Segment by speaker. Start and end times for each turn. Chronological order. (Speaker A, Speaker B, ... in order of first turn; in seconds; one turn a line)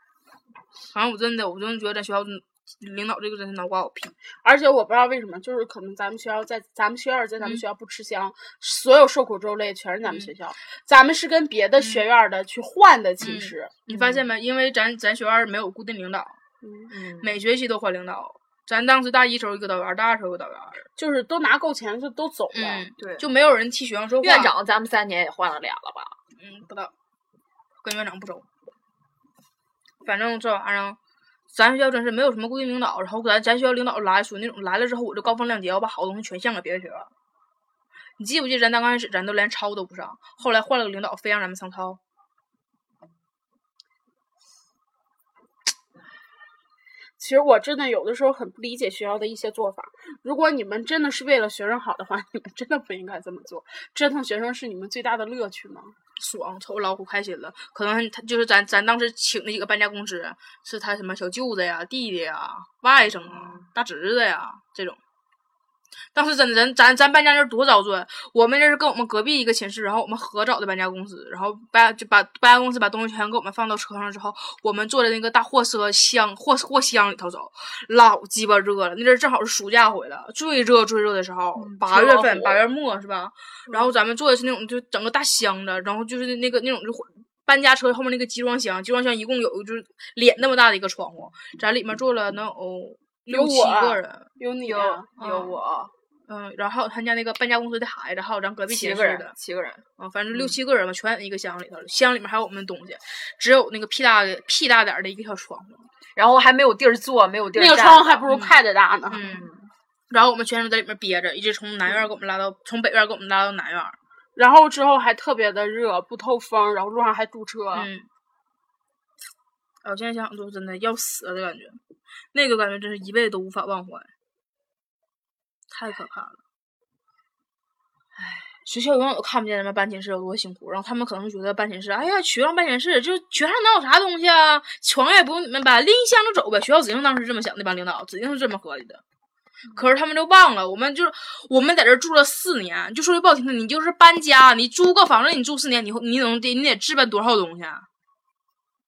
Speaker A: 0.9-4.1
Speaker B: 4.4-13.7
Speaker A: 11.8-12.0
Speaker A: 13.2-16.4
Speaker C: 13.9-14.2
Speaker B: 16.6-16.9
Speaker C: 16.9-17.4
Speaker A: 17.2-20.9
Speaker B: 21.0-22.8
Speaker A: 22.5-24.5
Speaker C: 23.0-23.2
Speaker C: 24.2-26.1
Speaker A: 26.4-26.9
Speaker A: 27.8-28.4
Speaker A: 30.0-31.0
Speaker A: 31.5-37.1
Speaker A: 38.2-42.0
Speaker B: 47.2-55.9
Speaker A: 56.2-65.0
Speaker C: 63.0-63.6
Speaker A: 66.1-94.3
Speaker C: 81.5-82.6
Speaker B: 93.3-95.1
Speaker C: 94.6-95.9
Speaker A: 95.2-95.6
Speaker A: 96.3-99.3
Speaker C: 98.7-100.5
Speaker A: 100.0-105.9
Speaker C: 106.2-108.2
Speaker B: 107.5-109.2
Speaker A: 108.3-108.5
Speaker A: 109.1-109.5
Speaker C: 109.1-109.7
Speaker A: 110.1-114.0
Speaker B: 114.3-117.9
Speaker A: 117.7-118.1
Speaker A: 119.8-121.8
Speaker A: 122.3-124.1
Speaker A: 125.7-126.4
Speaker C: 128.2-128.5
Speaker A: 128.7-139.0
Speaker A: 139.7-147.9